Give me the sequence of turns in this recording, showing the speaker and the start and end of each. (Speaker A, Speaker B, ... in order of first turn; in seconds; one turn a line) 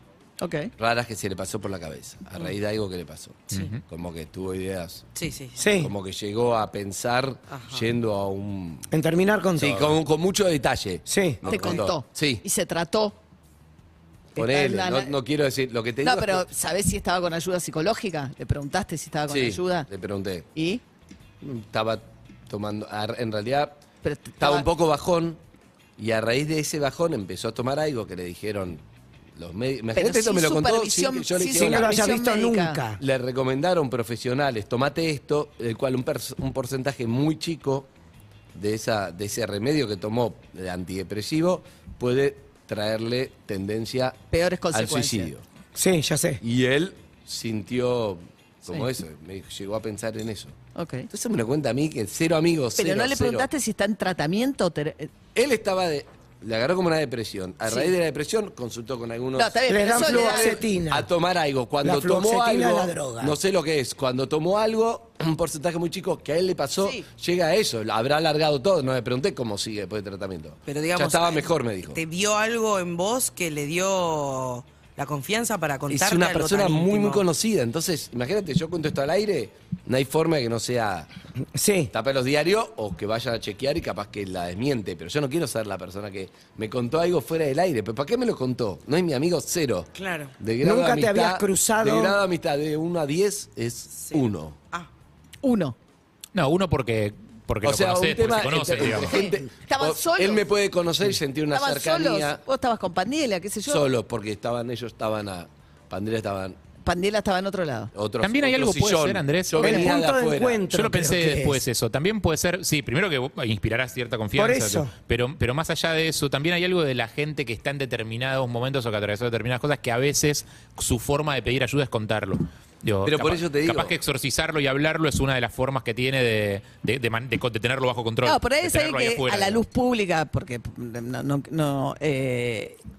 Speaker A: 0.4-0.7
Speaker B: 0.8-5.1
Speaker C: 3.5-3.8
Speaker D: 3.5-3.8
Speaker C: 5.2-5.6
Speaker E: 5.6-5.9
Speaker B: 5.7-8.9
Speaker C: 7.5-7.9
Speaker E: 8.9-10.0
Speaker B: 9.6-12.4
Speaker E: 11.1-11.8
Speaker A: 11.4-13.2
Speaker B: 14.3-16.4
Speaker A: 14.3-15.1
Speaker A: 16.0-19.9
Speaker B: 19.3-20.5
Speaker A: 20.5-20.8
Speaker B: 21.4-23.8
Speaker A: 24.0-24.7
Speaker B: 24.4-25.4
Speaker B: 26.0-28.8
Speaker B: 29.4-32.1
Speaker A: 29.9-32.8
Speaker E: 31.5-33.0
Speaker B: 33.0-37.9
Speaker B: 38.5-44.2
Speaker A: 44.3-45.3
Speaker B: 44.7-45.4
Speaker E: 45.8-46.4
Speaker B: 46.4-50.5
Speaker A: 50.7-51.1
Speaker B: 51.1-53.5
Speaker A: 52.8-55.1
Speaker B: 55.3-72.0
Speaker A: 57.6-57.9
Speaker A: 59.4-60.6
Speaker E: 59.7-61.1
Speaker E: 61.8-63.4
Speaker A: 66.8-67.0
Speaker C: 70.7-77.2
Speaker B: 75.9-81.1
Speaker E: 81.5-81.9
Speaker B: 81.9-94.6
Speaker C: 90.0-90.3
Speaker E: 90.6-92.2
Speaker C: 93.9-94.9
Speaker A: 95.4-95.7
Speaker D: 96.3-99.1
Speaker B: 97.6-102.4
Speaker A: 98.8-100.4
Speaker A: 101.5-103.8
Speaker B: 103.7-106.6
Speaker A: 106.8-107.9
Speaker B: 107.9-110.7
Speaker D: 108.2-109.8
Speaker E: 109.6-111.6
Speaker D: 110.7-129.6
Speaker E: 114.3-114.9
Speaker B: 123.0-124.0
Speaker A: 128.2-132.8